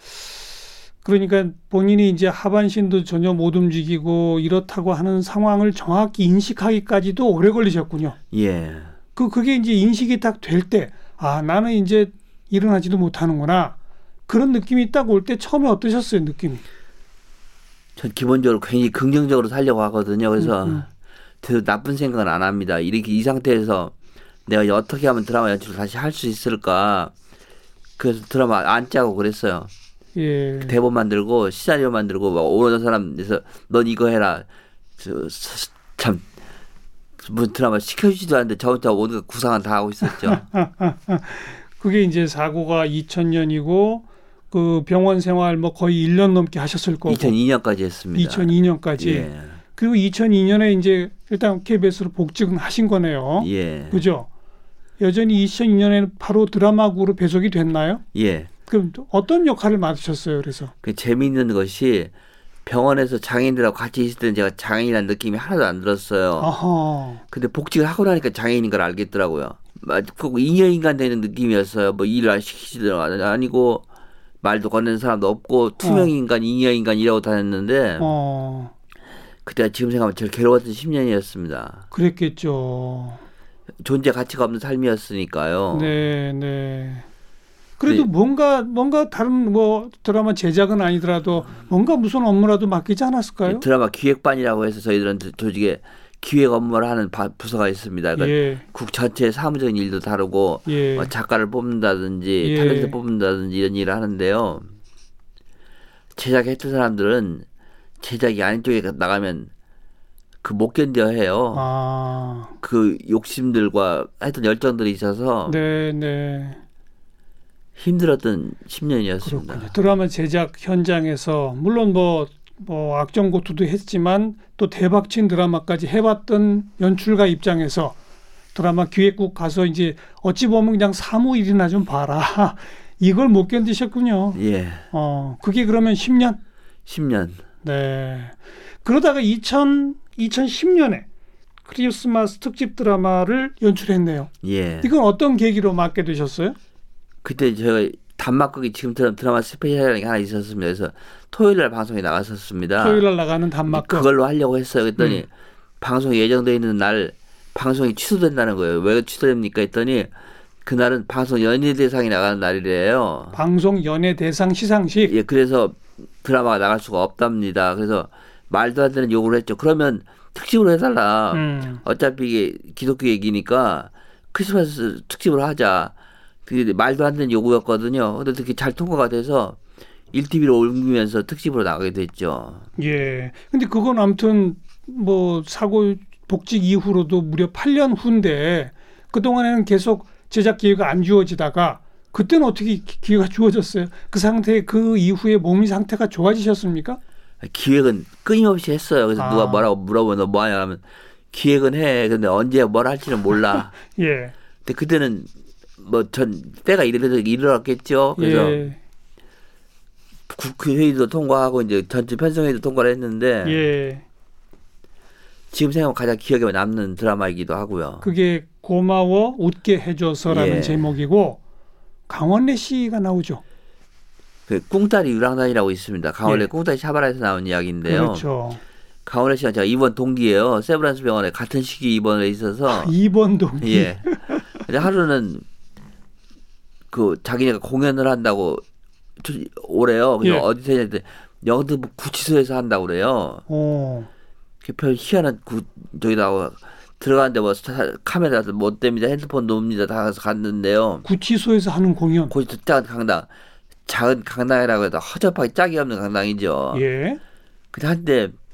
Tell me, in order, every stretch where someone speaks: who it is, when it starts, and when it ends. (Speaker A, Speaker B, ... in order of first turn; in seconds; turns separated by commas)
Speaker A: 1.0-8.2, Speaker B: 8.3-8.9, Speaker A: 9.2-13.8, Speaker A: 14.3-16.6, Speaker B: 18.0-20.9, Speaker A: 20.4-20.8, Speaker B: 21.4-23.9, Speaker B: 24.4-27.1, Speaker B: 28.0-29.7, Speaker A: 30.1-30.8, Speaker B: 30.6-34.5, Speaker B: 35.0-36.2, Speaker B: 37.2-40.4, Speaker A: 40.0-47.3, Speaker B: 47.1-49.6, Speaker A: 48.1-54.3, Speaker B: 53.4-54.0, Speaker A: 55.0-58.0, Speaker B: 58.1-58.5, Speaker A: 58.7-60.7, Speaker B: 60.8-62.1, Speaker B: 62.6-66.5, Speaker A: 66.4-67.2, Speaker B: 67.3-73.8, Speaker B: 74.4-78.1, Speaker A: 75.8-76.1, Speaker A: 78.0-78.7, Speaker B: 79.4-81.8, Speaker A: 81.9-83.2, Speaker B: 83.8-85.9, Speaker A: 85.7-87.0, Speaker A: 87.8-93.6, Speaker B: 93.4-104.7, Speaker A: 98.2-98.6, Speaker A: 100.7-101.1, Speaker A: 102.4-102.9, Speaker B: 106.2-107.4, Speaker B: 108.0-109.5, Speaker B: 110.4-111.6, Speaker A: 111.5-112.5, Speaker B: 112.6-115.6, Speaker A: 115.5-116.6, Speaker B: 117.8-119.7, Speaker A: 119.2-128.0, Speaker A: 128.5-134.4, Speaker B: 134.3-134.8, Speaker A: 134.9-136.4, Speaker B: 136.8-137.4, Speaker A: 137.6-141.1, Speaker A: 141.7-144.3, Speaker B: 144.4-144.9, Speaker A: 144.8-146.6, Speaker B: 147.2-153.0, Speaker A: 152.8-154.1, Speaker B: 153.7-155.3, Speaker B: 155.8-160.1, Speaker B: 160.6-163.3, Speaker A: 163.3-165.1, Speaker B: 165.1-175.9, Speaker A: 171.3-171.8, Speaker B: 176.4-179.6, Speaker B: 180.1-182.7, Speaker A: 182.8-197.0, Speaker B: 197.4-203.7, Speaker A: 199.2-199.7, Speaker A: 203.8-204.3, Speaker B: 204.6-208.6, Speaker A: 208.2-208.8, Speaker B: 210.3-213.6, Speaker A: 213.4-214.0, Speaker B: 215.5-218.1, Speaker A: 218.0-221.4, Speaker B: 220.3-220.9, Speaker A: 222.1-223.4, Speaker B: 224.5-228.2, Speaker A: 227.8-228.6, Speaker B: 229.0-232.9, Speaker A: 232.7-234.5, Speaker B: 233.6-235.4, Speaker B: 236.9-238.6, Speaker B: 239.2-243.4, Speaker A: 243.5-244.1, Speaker B: 244.6-251.0, Speaker A: 251.0-252.3, Speaker B: 252.3-253.3, Speaker B: 253.8-256.8, Speaker A: 256.7-257.2, Speaker B: 257.7-258.3